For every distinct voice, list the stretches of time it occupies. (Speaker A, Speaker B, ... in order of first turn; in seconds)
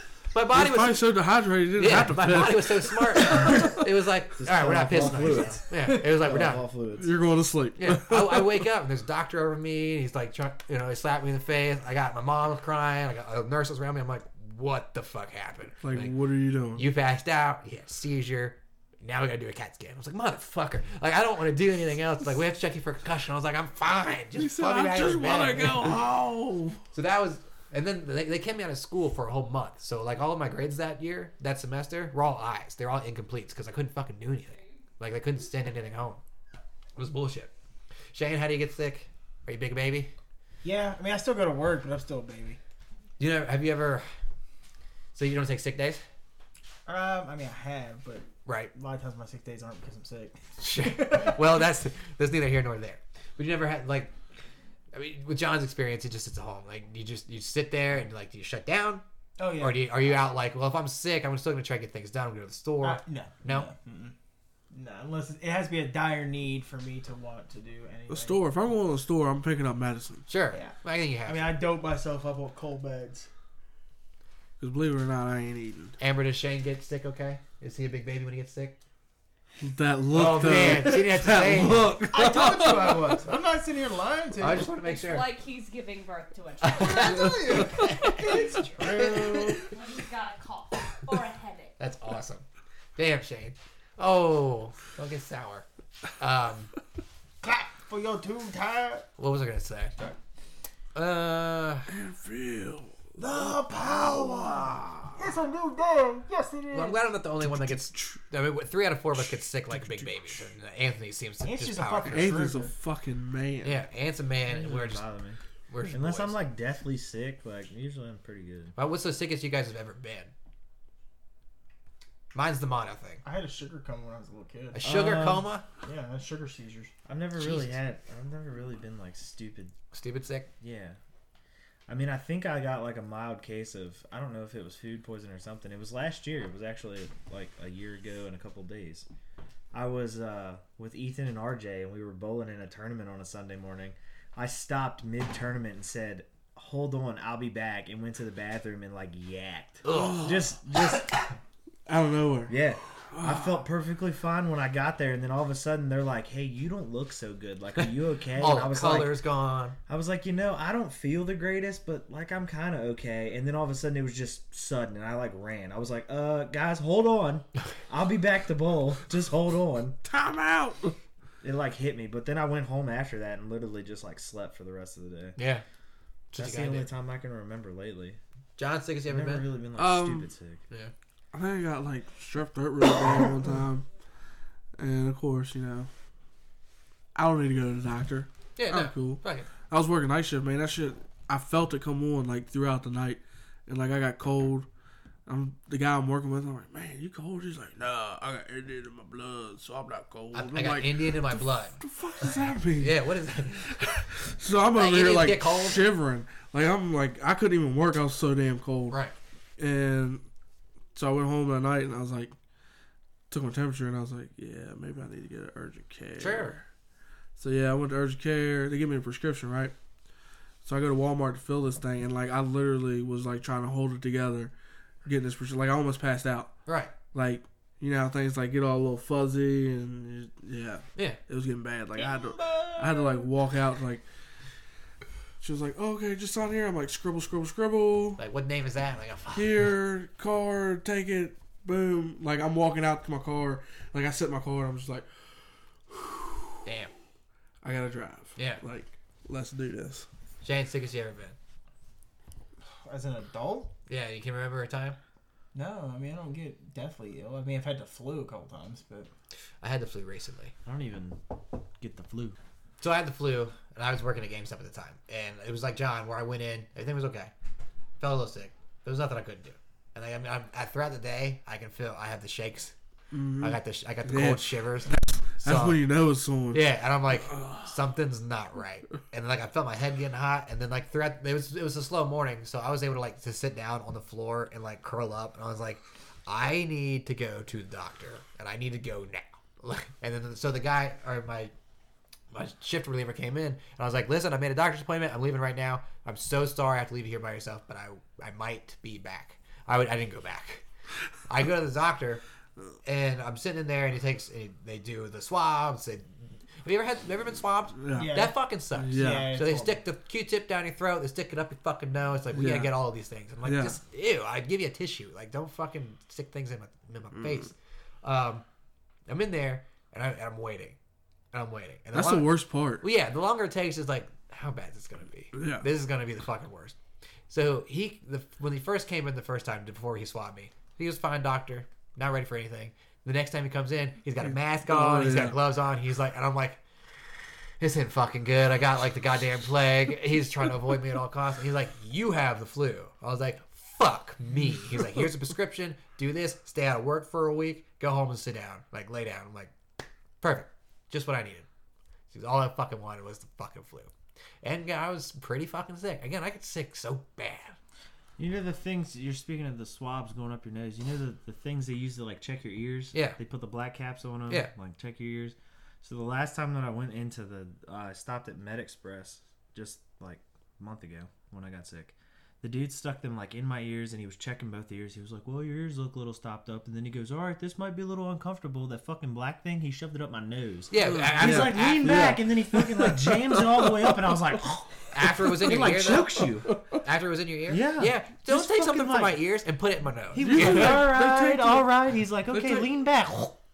Speaker A: 0.3-1.1, 1.8-6.7, 7.8-16.1, 16.8-26.0, 26.9-36.2, 37.0-37.5, 38.1-40.1, 43.2-44.0, 45.1-46.0, 48.5-48.7, 50.6-54.1, 54.9-59.0, 59.6-63.7, 70.3-71.5, 76.0-78.8, 80.1-82.0, 84.4-85.3, 86.7-88.6, 91.8-92.4, 93.0-95.7, 96.2-96.7, 99.2-100.1, 101.0-101.9, 106.7-112.4, 113.6-115.1, 115.7-116.4, 118.8-120.3, 122.3-123.2, 124.7-125.7, 127.3-127.8, 129.9-130.5, 149.8-150.4, 157.8-159.8, 175.4-175.6, 176.3-176.9, 178.6-179.5, 188.6-189.5, 200.3-204.1, 204.8-205.8, 216.2-216.6, 226.7-226.9, 238.2-239.5, 246.7-246.9, 248.4-248.6, 250.4-251.4, 253.9-255.0, 259.6-260.5, 262.8-267.3, 268.0-272.7, 273.4-275.8, 276.5-291.5, 292.3-300.6, 301.3-302.2, 302.9-306.1, 306.6-318.4, 319.1-320.8, 321.3-322.3, 322.8-326.8, 327.3-336.6, 337.6-349.5, 350.2-351.5, 352.1-353.9, 354.4-357.6, 362.9-363.2, 380.7-382.1, 384.9-386.3, 386.8-390.9
Speaker B: 0.5-3.9, 4.9-5.6, 7.0-8.7, 15.8-16.9, 24.3-26.8, 68.1-70.3, 74.6-76.0, 79.6-83.2, 87.2-88.1, 88.9-89.6, 101.9-105.1, 107.4-108.2, 109.2-110.5, 112.1-113.8, 149.9-150.5, 151.9-153.7, 170.0-171.0, 179.8-180.3, 181.3-183.9, 184.8-185.9, 187.2-194.7, 195.3-203.1, 204.1-209.0, 209.6-210.2, 210.9-212.3, 213.3-216.7, 217.4-219.7, 220.6-224.5, 225.1-226.5, 227.1-234.0, 235.4-238.2, 239.3-246.6, 247.6-250.1, 273.1-277.8, 307.8-308.1, 308.7-309.3, 312.3-312.7, 313.4-313.8, 317.1-317.5, 321.9-322.8, 325.3-325.7, 334.2-335.4, 380.8-384.1, 386.2-386.8, 390.1-391.7, 392.3-392.7
Speaker C: 4.4-7.1, 114.5-118.8, 124.8-125.5, 127.0-129.8, 130.6-131.0, 131.9-139.1, 139.7-151.3, 152.5-159.1, 159.9-170.0, 171.4-175.4, 176.4-178.2, 179.1-180.6, 260.6-261.2, 261.8-262.4, 358.2-386.6, 387.5-389.2, 390.1-393.4
Speaker D: 40.6-42.6, 46.9-51.6, 59.4-59.9, 62.8-64.2, 64.7-68.4, 70.5-73.3, 82.0-84.7, 86.8-89.7, 97.4-99.0, 103.2-107.1, 111.4-112.7, 123.2-124.8, 125.8-126.9, 232.0-233.2, 252.7-253.7, 255.5-259.1, 308.0-308.3, 308.9-309.8
Speaker E: 84.8-87.1, 89.8-91.8